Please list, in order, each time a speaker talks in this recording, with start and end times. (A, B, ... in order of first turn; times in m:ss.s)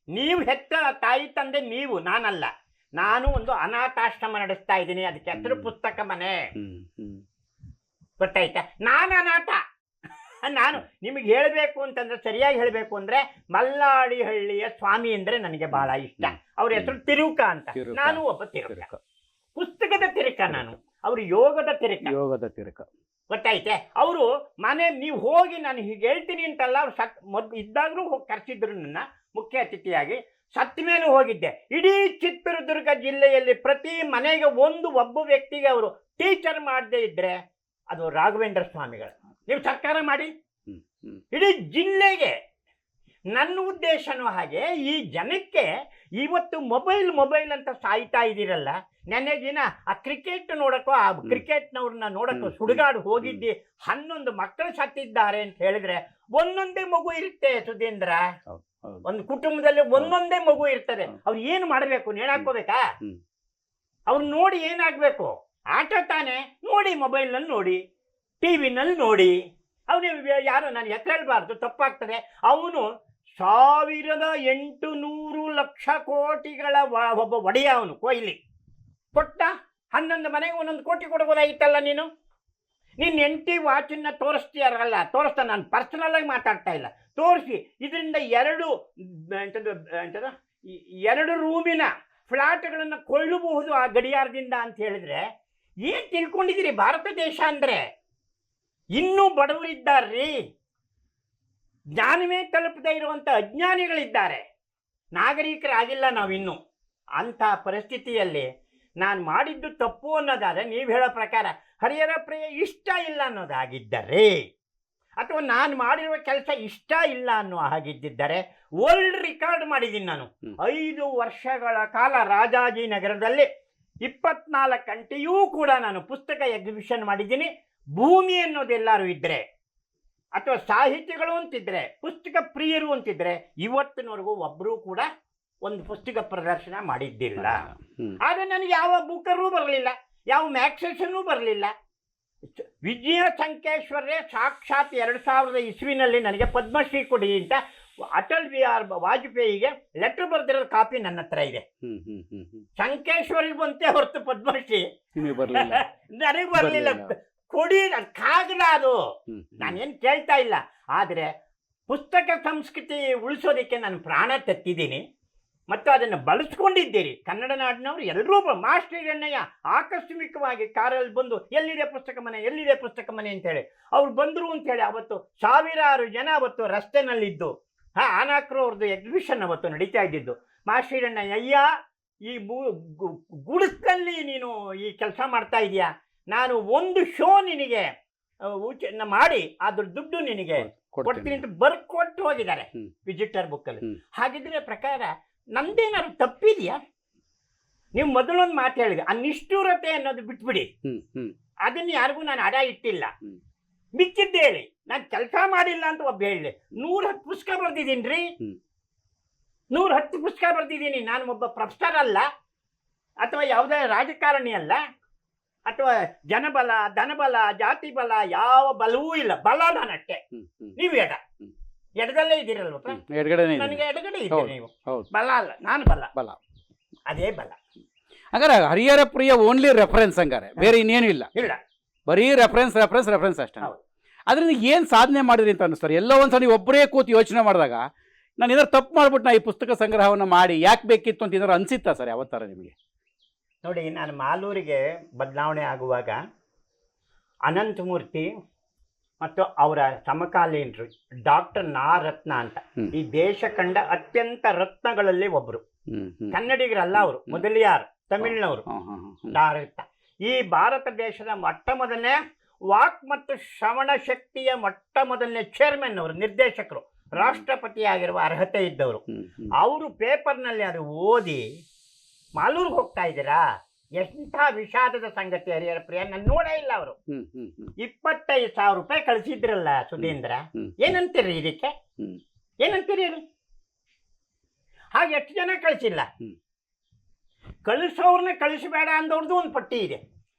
0:00.1-0:06.4 A
0:05.3-0:05.7 B
0:06.6-0:07.2 B
0:08.2-0:09.6 A
0:10.5-0:18.9 A
0:15.7-0:16.9 B
0:17.8-0:19.0 B
0:19.6-0:22.1 A
0:22.0-0:22.9 B
0:23.3-0:37.3 A
0:37.9-0:40.3 A
0:40.7-0:41.2 B
0:41.3-0:42.3 A
0:43.4-0:45.7 A
0:46.2-0:58.2 A
0:52.3-0:53.4 B
0:58.5-0:59.0 B
0:59.0-1:02.8 A
1:04.1-1:07.8 A
1:08.4-1:09.3 A
1:09.9-1:12.8 A
1:13.4-1:18.4 A
1:19.1-1:22.1 A
1:23.0-1:35.2 A
1:35.8-1:37.8 A
1:39.0-1:40.3 A
1:42.0-1:44.4 A
1:45.2-1:46.6 A
1:47.2-1:48.5 A
1:49.0-1:54.3 A
1:55.2-2:03.4 A
2:04.0-2:09.4 A
2:10.4-2:15.0 A
2:15.6-2:17.6 A
2:17.4-2:18.2 B
2:18.2-2:21.7 A
2:22.6-2:27.6 A
2:28.1-2:31.6 A
2:31.8-2:32.6 B
2:32.8-2:34.8 A
2:35.2-2:35.8 B
2:35.5-2:39.0 A
2:36.6-2:37.1 B
2:39.3-2:39.8 B
2:39.6-2:41.3 A
2:41.9-2:45.0 A
2:45.7-3:01.6 A
3:02.3-3:07.8 A
3:08.6-3:16.8 A
3:10.6-3:11.4 B
3:18.0-3:20.7 A
3:20.8-3:21.3 B
3:21.7-3:23.1 A
3:24.0-3:28.3 A
3:29.7-3:32.2 A
3:33.2-3:34.8 A
3:35.7-3:40.2 A
3:40.3-3:40.8 B
3:40.8-3:41.2 A
3:42.0-3:43.0 A
3:42.9-3:45.1 B
3:43.6-3:46.1 A
3:47.1-3:47.6 A
3:48.3-3:51.3 B
3:51.4-3:51.6 A
3:52.1-3:53.7 B
3:54.3-3:57.8 B
3:58.4-4:02.8 B
4:03.6-4:06.2 A
4:07.5-4:08.3 A
4:09.2-4:15.6 A
4:15.9-4:16.4 B
4:16.3-4:18.6 A
4:17.0-4:17.4 B
4:18.2-4:19.4 B
4:19.3-4:22.2 A
4:22.7-4:29.0 A
4:29.1-4:29.5 B
4:29.6-4:31.4 A
4:32.4-4:33.4 A
4:34.0-4:37.0 A
4:37.1-4:37.8 B
4:37.8-4:41.7 A
4:40.0-4:40.7 B
4:42.6-4:43.2 A
4:45.0-4:46.1 A
4:47.6-4:50.0 A